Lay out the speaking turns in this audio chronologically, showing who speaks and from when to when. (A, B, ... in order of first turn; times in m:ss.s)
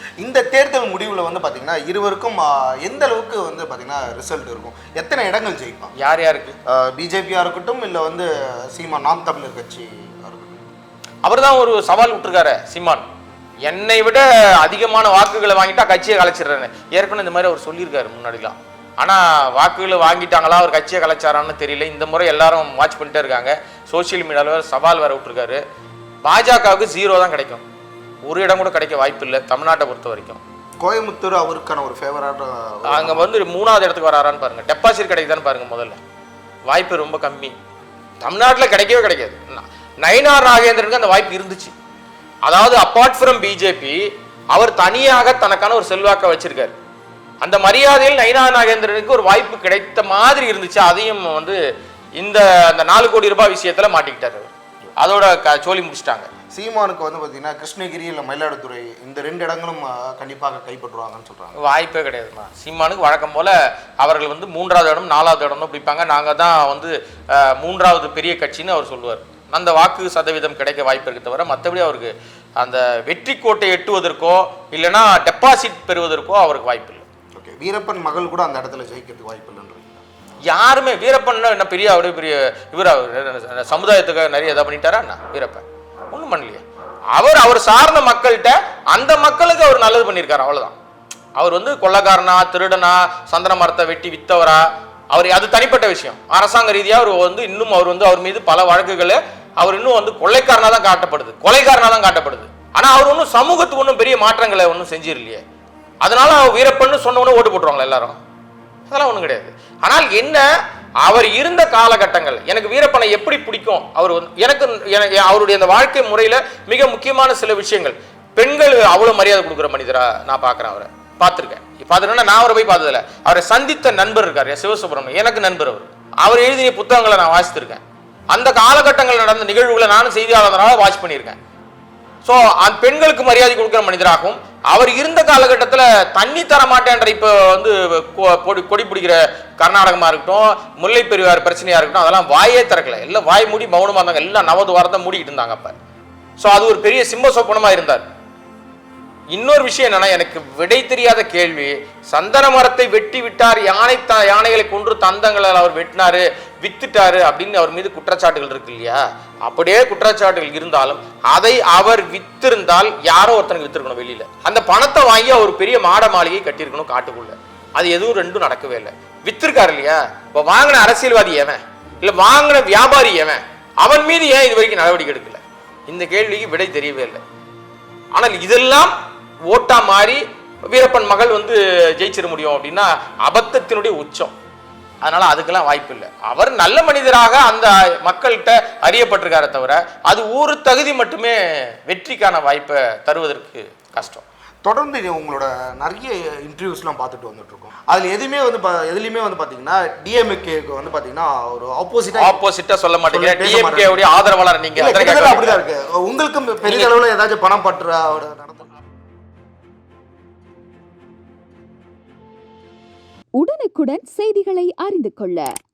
0:00.2-0:05.9 A
0:06.0-0:06.5 B
0:06.7-0:10.6 A
0:11.2-0:13.0 B
0:13.6-0:25.6 B
0:26.2-0:27.6 B
0:28.2-0:30.4 B
0:30.8-0:33.3 A
0:32.9-0:36.0 B
0:36.7-0:37.6 B
0:38.2-0:41.7 B
0:42.4-0:46.7 B
0:47.4-0:51.6 B
0:52.2-0:56.3 B
0:56.5-1:01.6 A
1:01.6-1:17.0 B
1:17.4-1:20.0 A
1:20.5-1:30.8 B
1:31.4-1:45.4 B
1:46.0-1:48.2 B
1:48.9-1:50.4 B
1:51.0-2:07.8 B
2:08.3-2:11.4 B
2:12.2-2:25.7 B
2:26.4-2:28.0 B
2:29.3-2:57.2 B
2:58.1-2:58.9 B
2:59.5-3:04.3 B
3:05.0-3:14.2 B
3:14.6-3:22.4 A
3:22.1-3:25.6 B
3:23.0-3:24.0 A
3:24.8-3:28.7 A
3:26.6-3:27.0 B
3:33.4-3:35.5 C